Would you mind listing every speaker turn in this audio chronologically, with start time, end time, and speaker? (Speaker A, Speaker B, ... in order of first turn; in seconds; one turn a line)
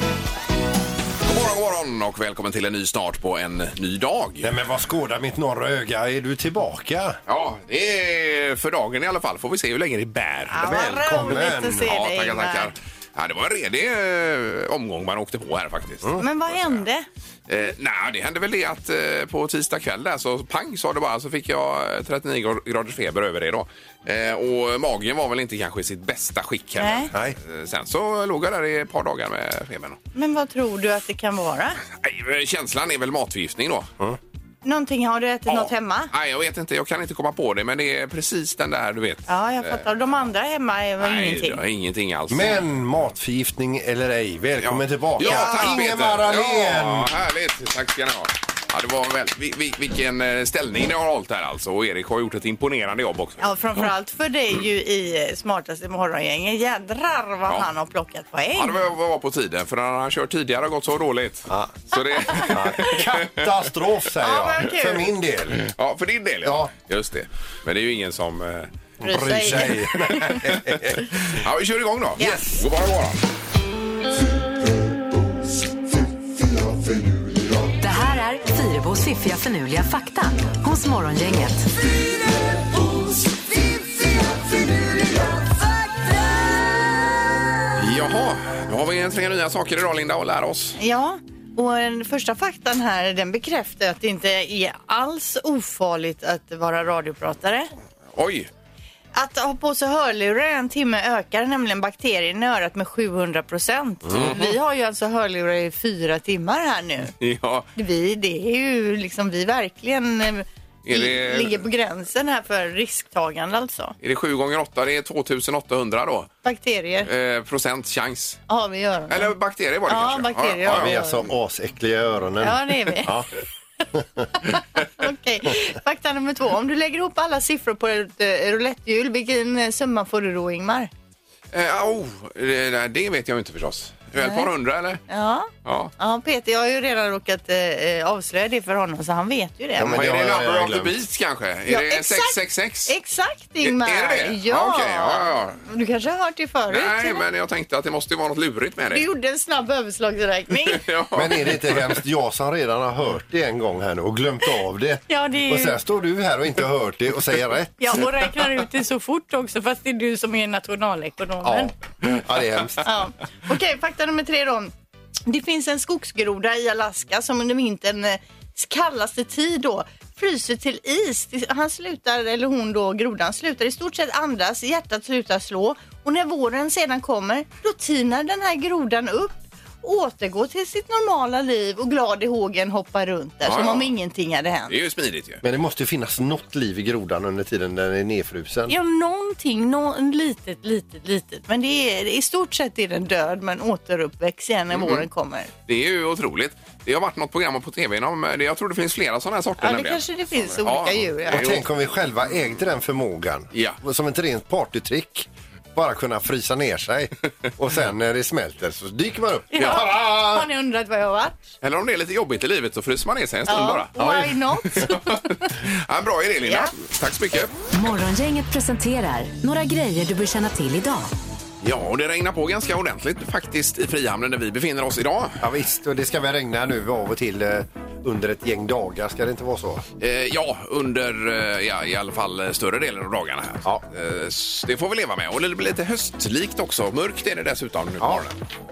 Speaker A: 1.2-4.5
Speaker B: 4.4-7.2
Speaker A: 7.3-16.8
Speaker C: 10.5-12.7
Speaker B: 10.6-11.9
Speaker C: 16.2-17.1
Speaker A: 17.5-30.0
Speaker C: 26.8-27.1
Speaker C: 30.1-31.8
Speaker A: 32.0-33.9
Speaker C: 34.6-36.1
Speaker A: 35.5-39.9
Speaker C: 39.3-41.6
Speaker A: 41.0-42.6
Speaker B: 42.3-47.1
Speaker A: 44.6-53.8
Speaker C: 45.2-45.7
Speaker C: 53.4-58.8
Speaker A: 58.5-63.5
Speaker B: 61.5-61.8
Speaker C: 62.2-62.9
Speaker B: 62.3-65.6
Speaker C: 64.2-65.1
Speaker A: 65.5-68.7
Speaker B: 66.4-66.7
Speaker B: 69.0-71.1
Speaker C: 69.0-70.4
Speaker A: 70.6-73.2
Speaker B: 72.2-72.6
Speaker D: 77.8-81.7
Speaker A: 87.8-90.8
Speaker C: 90.8-97.7
Speaker A: 98.1-98.5
Speaker C: 99.1-107.1
Speaker B: 104.1-104.4
Speaker A: 104.1-104.4
Speaker A: 107.2-107.7
Speaker C: 107.8-114.0
Speaker A: 110.8-111.6
Speaker A: 114.0-116.3
Speaker C: 116.4-117.1
Speaker A: 117.0-118.4
Speaker C: 118.5-119.3
Speaker A: 119.1-121.0
Speaker C: 119.9-121.2
Speaker B: 120.6-123.3
Speaker C: 122.4-123.1
Speaker B: 123.9-124.5
Speaker C: 124.4-130.9
Speaker A: 131.5-135.0
Speaker C: 134.2-134.5
Speaker C: 135.1-140.0
Speaker A: 135.6-135.9
Speaker B: 139.8-140.9
Speaker A: 139.8-142.9
Speaker C: 141.7-147.2
Speaker A: 143.6-145.6
Speaker A: 146.7-149.0
Speaker C: 148.9-150.8
Speaker A: 150.6-152.0
Speaker B: 151.1-157.7
Speaker C: 155.1-155.8
Speaker C: 157.8-161.7
Speaker B: 161.4-162.8
Speaker C: 162.8-164.7
Speaker C: 165.2-184.8
Speaker A: 183.4-183.9
Speaker A: 184.7-185.4
Speaker B: 185.4-188.7
Speaker C: 188.7-195.5
Speaker A: 194.7-195.1
Speaker A: 195.7-200.0
Speaker C: 199.6-201.5
Speaker A: 200.6-201.6
Speaker B: 201.3-210.4
Speaker A: 203.5-203.8
Speaker C: 209.5-211.4
Speaker A: 209.6-209.9
Speaker A: 211.6-214.1
Speaker C: 213.5-215.2
Speaker B: 214.0-214.2
Speaker A: 214.7-217.5
Speaker C: 216.4-216.7
Speaker D: 217.7-221.1
Speaker A: 221.6-225.4
Speaker B: 225.4-229.8
Speaker A: 230.0-238.4